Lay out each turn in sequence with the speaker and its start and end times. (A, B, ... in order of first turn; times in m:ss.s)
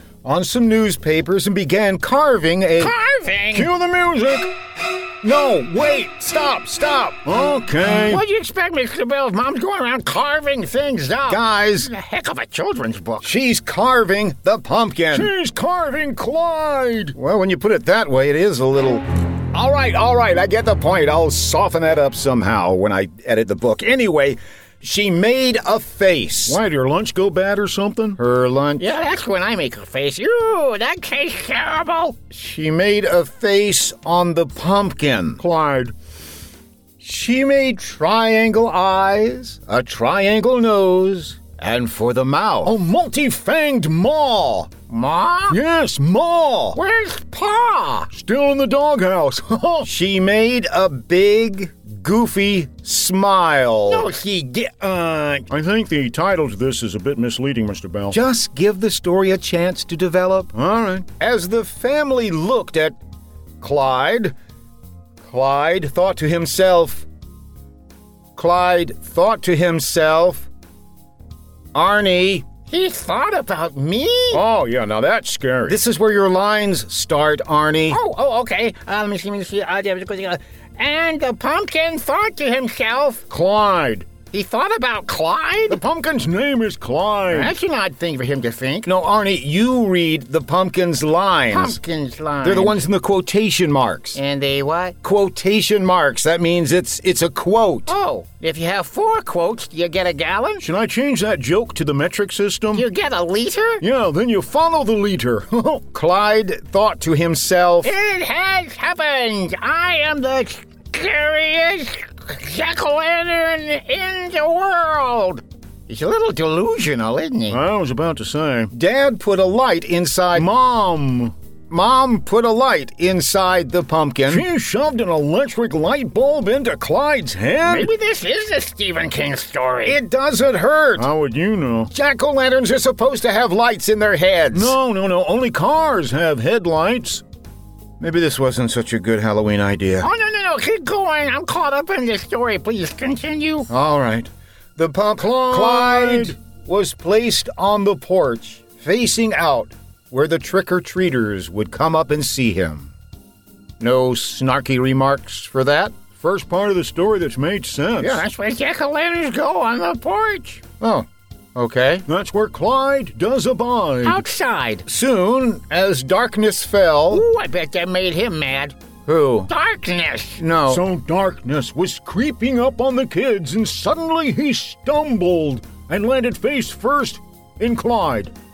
0:00.2-0:03.0 A
0:02.8-0:03.7 B
0:03.5-0:04.5 C
0:05.2-0:07.2 A
0:07.2-0:08.2 C
0:08.1-0:13.3 B
0:11.3-0:11.9 A
0:13.2-0:15.3 A
0:15.1-0:17.2 C
0:17.1-0:26.6 A
0:26.5-0:28.2 C
0:28.2-0:28.9 A
0:28.8-0:32.2 B
0:32.3-0:35.4 A
0:35.4-0:35.9 C
0:37.0-0:42.8 A
0:42.6-0:44.7 C
0:44.9-0:45.6 B
0:45.5-0:46.8 C
0:46.7-0:48.1 B
0:48.1-0:49.9 C
0:49.8-0:54.1 A
0:53.8-0:55.4 B
0:54.9-0:55.4 A
0:55.5-0:58.2 C
0:58.1-1:03.0 A
1:00.5-1:01.1 C
1:03.6-1:04.4 A
1:05.2-1:07.1 A
1:08.4-1:10.5 A
1:11.7-1:12.5 A
1:12.6-1:14.4 B
1:14.3-1:15.8 C
1:15.7-1:18.0 A
1:17.9-1:23.2 B
1:23.3-1:24.1 C
1:24.3-1:25.8 B
1:25.8-1:27.5 C
1:27.3-1:28.9 B
1:28.9-1:31.8 A
1:31.5-1:32.8 B
1:32.4-1:34.2 A
1:34.1-1:35.0 B
1:35.0-1:37.9 A
1:37.9-1:40.7 B
1:40.6-1:42.9 C
1:42.7-1:43.8 B
1:43.8-1:45.9 C
1:45.9-1:47.9 A
1:47.8-1:57.6 B
1:57.5-1:58.7 C
1:58.7-2:00.5 A
2:00.3-2:01.3 C
2:01.7-2:04.4 A
2:04.3-2:07.9 C
2:07.6-2:10.0 B
2:09.8-2:11.1 A
2:11.0-2:11.9 C
2:11.9-2:14.8 A
2:14.5-2:17.2 C
2:18.0-2:20.1 A
2:20.0-2:23.7 B
2:23.7-2:32.9 A
2:25.2-2:26.4 C
2:33.8-2:36.0 A
2:36.2-2:38.2 C
2:38.0-2:40.6 B
2:40.8-2:42.1 A
2:42.1-2:44.2 C
2:44.0-2:44.8 B
2:44.9-2:47.3 A
2:47.1-2:48.8 B
2:49.1-2:49.5 A
2:49.5-2:50.5 B
2:50.4-2:50.9 A
2:50.7-2:58.3 C